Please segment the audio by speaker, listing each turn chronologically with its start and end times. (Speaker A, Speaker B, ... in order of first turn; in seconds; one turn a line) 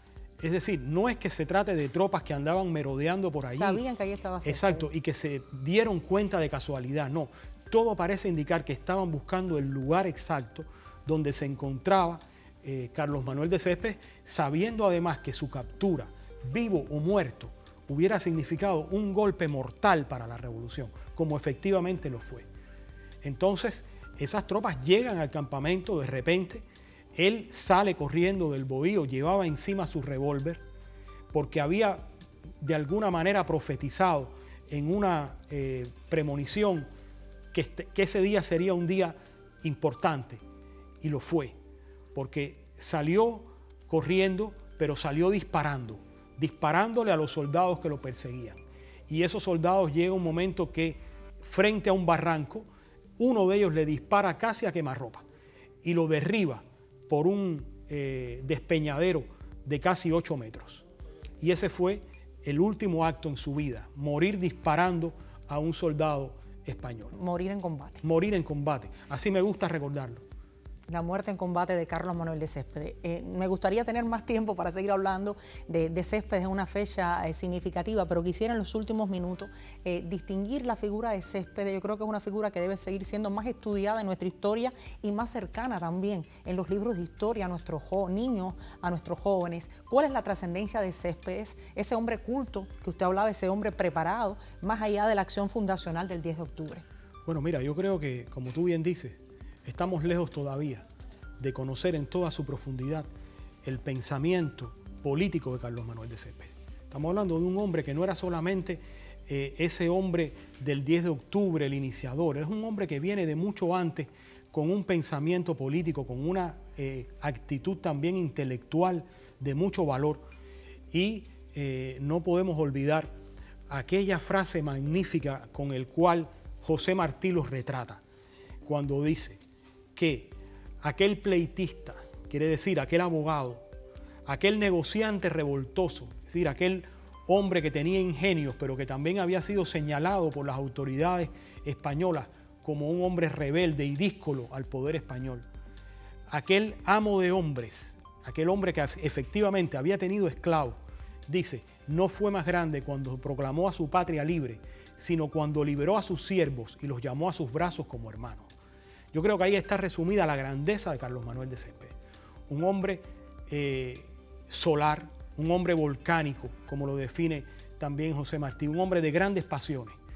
Speaker A: 0.4-3.8
Speaker B: 3.5-4.9
Speaker A: 4.4-22.5
Speaker A: 23.2-30.6
Speaker A: 31.3-32.0
Speaker A: 32.6-36.9
Speaker A: 37.5-40.4
Speaker A: 41.0-41.5
Speaker A: 42.1-48.6
Speaker A: 49.1-52.7
Speaker A: 53.2-55.2
Speaker A: 55.8-60.8
Speaker A: 61.4-67.1
Speaker B: 67.1-68.0
Speaker A: 68.0-70.2
Speaker B: 70.9-96.8
Speaker A: 97.2-100.8
Speaker A: 101.4-103.1
Speaker A: 103.6-120.2
Speaker A: 120.9-123.1
Speaker A: 123.7-128.0
Speaker A: 128.6-129.4
Speaker A: 129.9-133.7
Speaker A: 134.2-145.4
Speaker A: 146.3-158.5
Speaker A: 159.1-161.9
Speaker A: 162.5-170.0